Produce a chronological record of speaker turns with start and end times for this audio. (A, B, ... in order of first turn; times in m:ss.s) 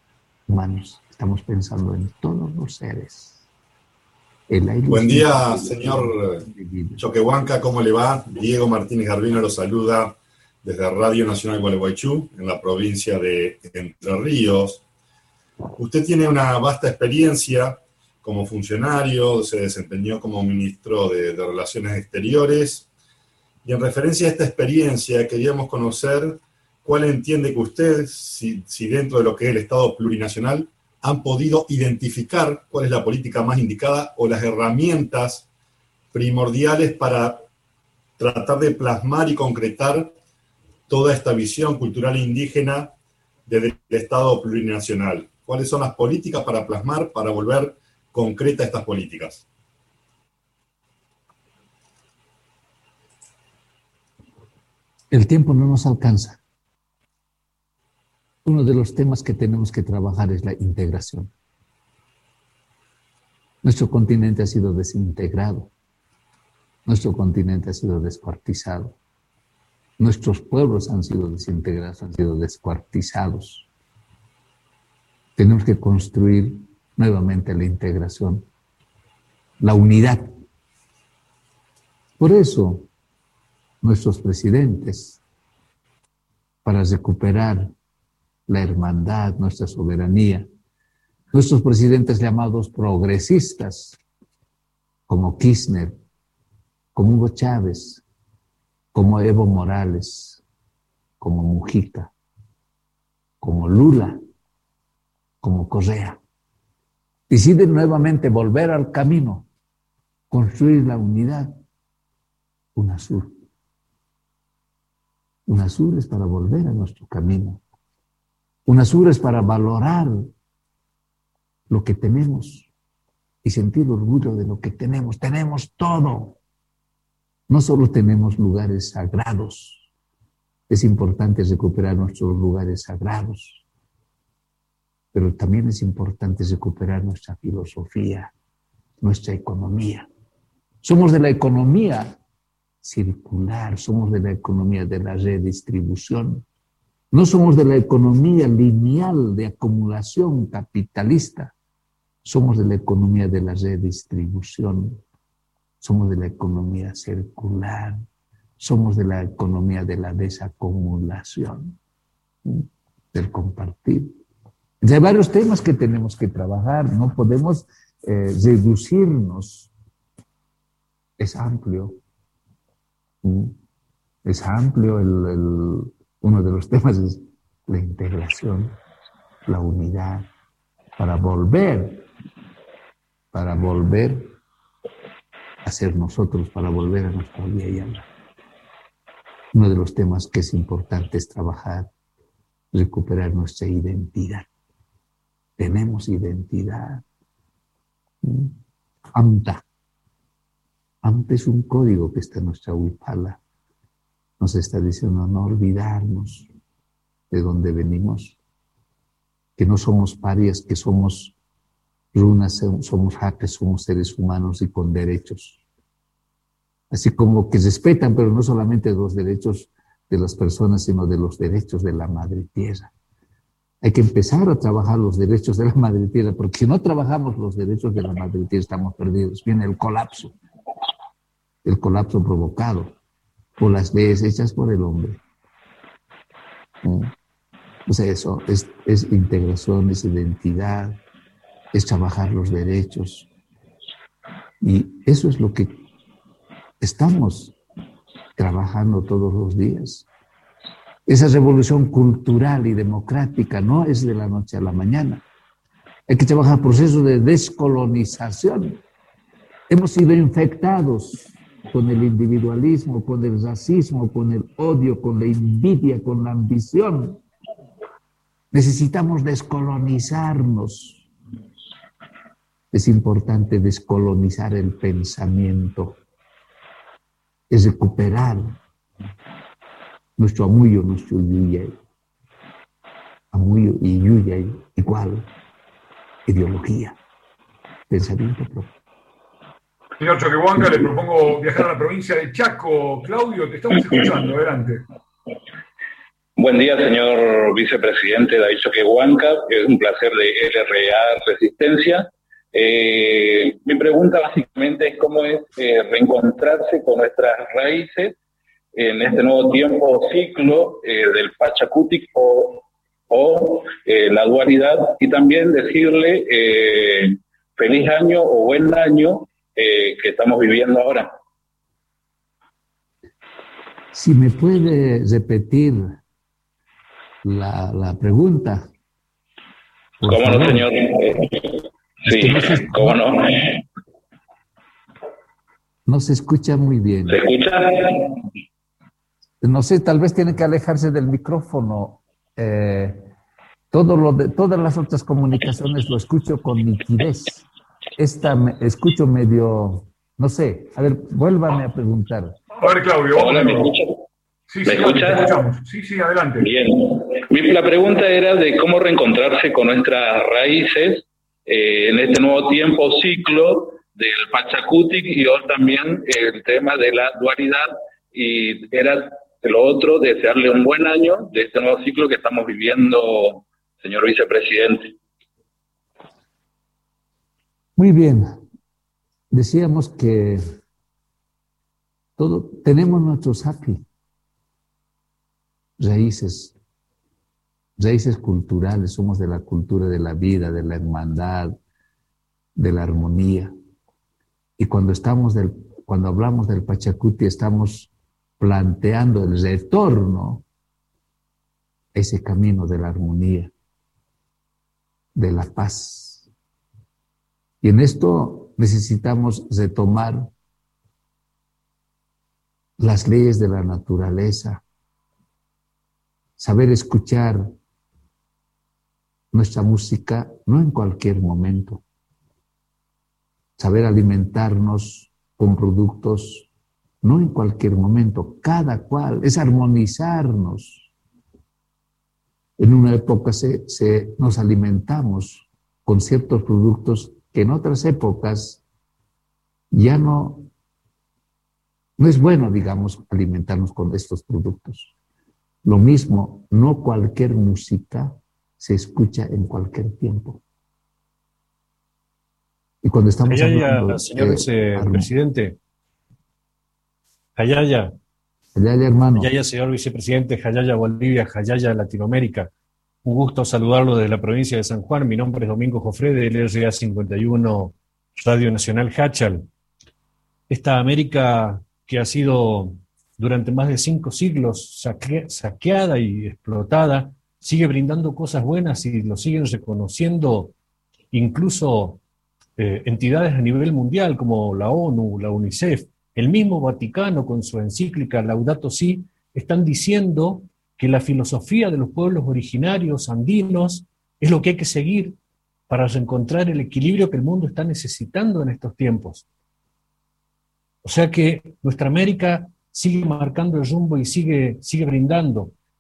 0:00.5-0:03.4 A
0:04.5-0:07.0 A
0:04.9-0:06.5 B
0:07.0-0:14.8 B
0:15.8-0:22.9 B
0:23.6-0:35.5 B
0:36.1-0:37.4 B
0:38.2-0:40.1 B
0:40.9-0:42.9 B
0:43.5-0:49.4 B
0:55.1-0:56.4 A
0:58.4-1:01.3 A
1:03.6-1:05.7 A
1:06.9-1:09.0 A
1:10.0-1:13.7 A
1:15.4-1:18.5 A
1:19.6-1:20.3 A
1:22.2-1:22.9 A
1:23.8-1:25.2 A
1:26.6-1:27.7 A
1:28.5-1:30.5 A
1:31.3-1:34.0 A
1:35.1-1:36.0 A
1:37.0-1:38.0 A
1:38.9-1:40.4 A
1:41.2-1:42.1 A
1:43.4-1:44.2 A
1:45.4-1:46.2 A
1:47.3-1:49.5 A
1:50.3-1:51.6 A
1:52.8-1:53.4 A
1:55.5-1:57.6 A
1:58.7-2:00.3 A
2:01.7-2:02.7 A
2:03.4-2:06.4 A
2:07.5-2:09.9 A
2:10.7-2:13.6 A
2:15.1-2:18.3 A
2:19.0-2:20.1 A
2:20.8-2:22.2 A
2:22.8-2:26.4 A
2:27.1-2:31.5 A
2:32.2-2:35.0 A
2:35.8-2:38.0 A
2:38.6-2:41.8 A
2:42.4-2:44.1 A
2:44.8-2:49.7 A
2:51.2-2:52.0 A
2:53.2-2:53.6 A
2:54.2-2:58.8 A
2:59.5-3:00.3 A
3:01.0-3:02.0 A
3:03.3-3:04.4 A
3:05.6-3:08.1 A
3:09.5-3:11.9 A
3:12.7-3:14.5 A
3:15.6-3:17.0 A
3:18.2-3:18.6 A
3:19.1-3:19.6 A
3:21.0-3:23.4 A
3:24.4-3:26.5 A
3:27.3-3:28.4 A
3:29.6-3:31.4 A
3:32.1-3:35.6 A
3:36.9-3:42.9 A
3:43.8-3:50.3 A
3:51.6-3:53.0 A
3:53.6-3:55.2 A
3:56.8-3:57.1 A
3:57.9-4:01.0 A
4:01.7-4:03.3 A
4:04.6-4:05.8 A
4:06.8-4:07.6 A
4:08.4-4:10.1 A
4:11.1-4:15.2 A
4:16.1-4:18.8 A
4:19.7-4:27.2 A
4:28.5-4:31.0 A
4:32.7-4:36.0 A
4:37.5-4:38.6 A
4:40.2-4:41.8 A
4:43.3-4:45.3 A
4:46.3-4:47.0 A
4:47.9-4:48.7 A
4:50.0-4:54.8 C
4:56.4-5:08.2 D
5:08.8-5:21.1 D
5:23.9-5:26.0 A
5:27.2-5:28.7 A
5:30.0-5:30.7 A
5:30.0-5:33.6 D
5:32.1-5:33.0 A
5:35.9-5:37.2 A
5:37.1-5:38.1 D
5:39.4-5:43.1 A
5:43.7-5:47.5 A
5:48.0-5:52.4 A
5:52.6-5:53.7 C
5:53.1-5:54.0 D
5:54.5-5:56.5 C
5:54.6-5:55.4 D
5:56.4-6:14.9 D
6:17.8-6:18.4 A
6:19.3-6:20.4 A
6:22.2-6:23.8 A
6:25.8-6:26.6 A
6:27.8-6:31.6 A
6:32.6-6:33.5 A
6:34.6-6:40.4 A
6:41.9-6:43.5 A
6:45.2-6:46.3 A
6:47.6-6:50.3 A
6:52.8-6:54.6 A
6:56.4-6:57.5 A
6:59.3-7:01.8 A
7:03.6-7:06.5 A
7:07.0-7:10.9 A
7:12.6-7:18.6 A
7:19.7-7:20.5 A
7:22.0-7:24.9 A
7:25.6-7:30.4 A
7:32.8-7:35.1 A
7:33.3-7:35.6 E
7:37.4-7:37.9 E
7:38.6-7:39.3 A
7:39.2-7:42.5 E
7:43.0-7:49.5 E
7:50.5-8:00.5 E
8:01.1-8:02.0 E
8:02.6-8:15.2 E
8:15.7-8:19.3 E
8:20.8-8:25.5 E